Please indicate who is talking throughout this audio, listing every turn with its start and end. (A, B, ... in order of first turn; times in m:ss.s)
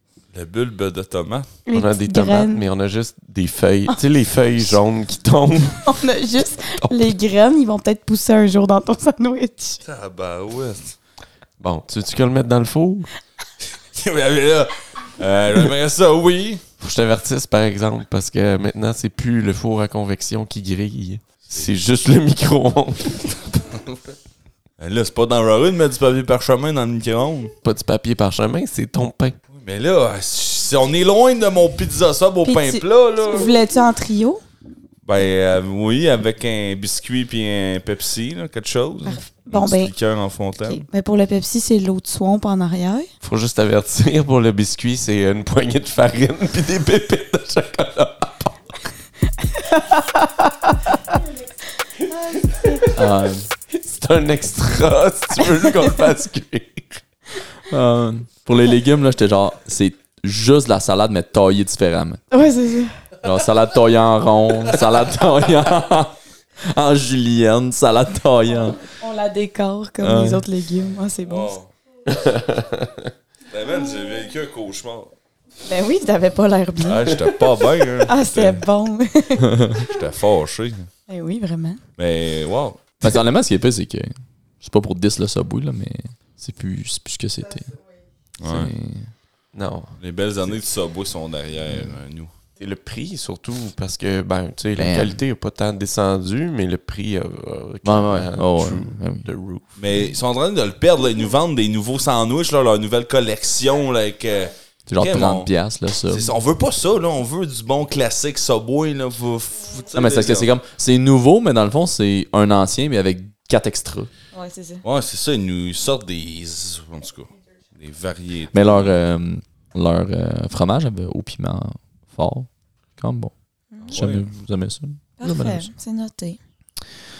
0:00.3-0:01.5 A
0:01.6-0:02.6 B
0:01.7-0:06.0 C
0:05.8-0:09.8 B
0:06.8-0:07.1 C
0:09.8-0:10.9 A
0:11.6-0:13.1 C
0:13.9-0:16.6 A
0:16.8-0:23.3 C
0:23.7-0:24.1 A
0:24.8-0:27.5 A
0:27.6-0:29.4 C
0:29.5-0:33.5 A
0:32.4-0:34.4 B
0:35.0-0:40.8 A
0:39.0-0:39.9 B
0:40.6-0:43.1 B
0:43.2-0:48.6 C
0:49.6-0:50.7 B
0:52.1-0:52.8 B
0:52.6-0:52.9 C
0:52.9-0:53.5 D
0:53.7-0:57.0 C
0:57.7-1:02.2 D
1:02.3-1:03.0 B
1:03.2-1:08.8 D
1:09.0-1:11.5 B
1:10.0-1:10.4 D
1:11.2-1:11.7 A
1:12.1-1:13.0 C
1:13.5-1:15.1 A
1:15.6-1:17.2 B
1:16.8-1:18.6 A
1:18.0-1:19.8 B
1:19.8-1:20.9 A
1:21.1-1:21.8 B
1:22.0-1:22.9 A
1:23.0-1:27.7 D
1:28.4-1:28.7 A
1:28.4-1:29.1 D
1:29.5-1:30.0 C
1:30.0-1:32.3 A
1:32.6-1:39.7 C
1:34.8-1:35.2 D
1:37.8-1:39.3 D
1:39.8-1:45.5 A
1:44.9-1:46.3 D
1:46.1-1:50.5 A
1:49.9-1:54.1 D
1:54.3-1:54.8 B
1:54.8-1:58.9 A
1:58.5-2:05.7 D
2:03.8-2:04.2 A
2:05.2-2:06.4 B